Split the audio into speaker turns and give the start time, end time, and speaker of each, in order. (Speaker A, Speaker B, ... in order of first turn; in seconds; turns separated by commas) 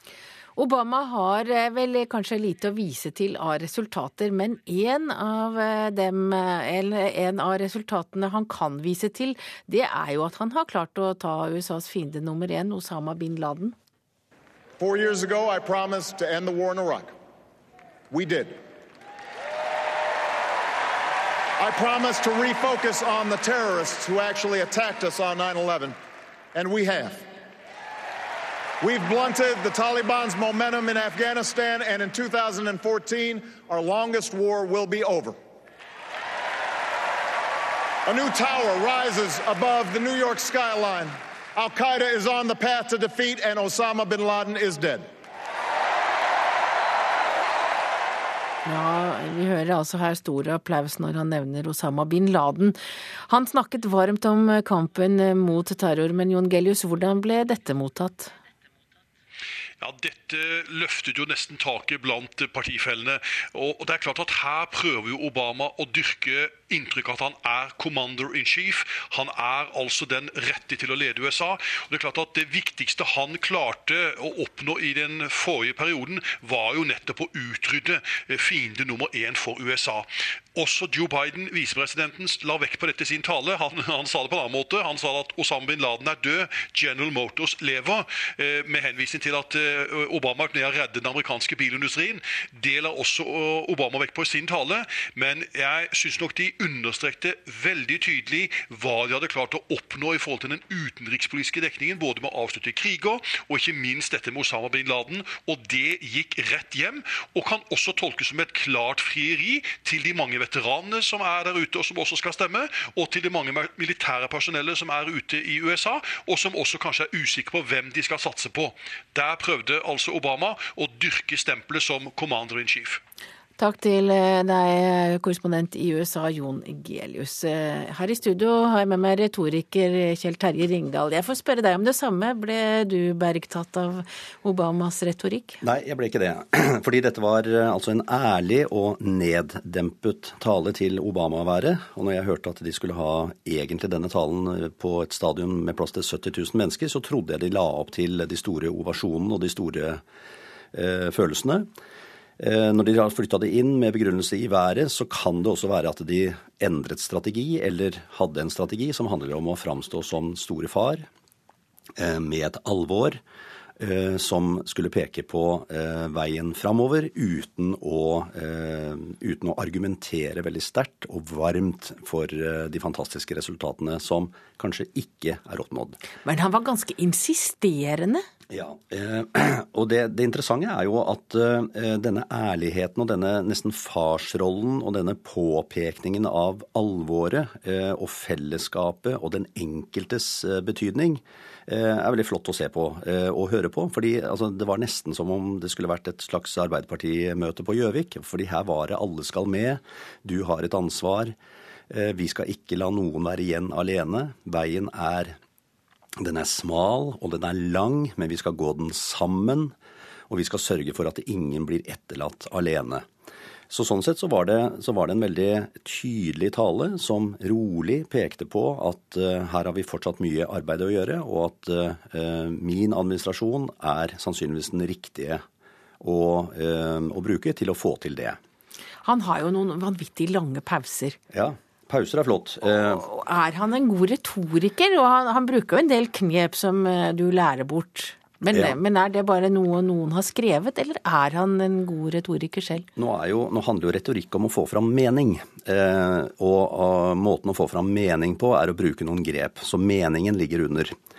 Speaker A: 0.6-13.8, Speaker B: 14.8-17.1, Speaker B: 18.1-18.6, Speaker B: 21.6-25.9, Speaker B: 26.5-27.2, Speaker B: 28.8-35.4, Speaker B: 38.1-45.1, Speaker A: 48.6-52.8, Speaker A: 53.3-58.3, Speaker C: 59.8-123.0, Speaker A: 123.6-135.6, Speaker D: 135.6-150.0, Speaker D: 150.7-151.7, Speaker D: 152.4-161.1, Speaker D: 162.0-163.2, Speaker D: 163.8-176.0, Speaker A: 176.2-178.2, Speaker D: 178.5-201.3, Speaker D: 201.9-205.3, Speaker D: 206.2-209.7, Speaker D: 210.3-213.1, Speaker D: 213.7-225.4, Speaker D: 226.0-228.4, Speaker A: 229.0-231.2, Speaker D: 231.3-233.0, Speaker A: 232.7-242.8, Speaker D: 238.5-238.8, Speaker D: 243.0-250.9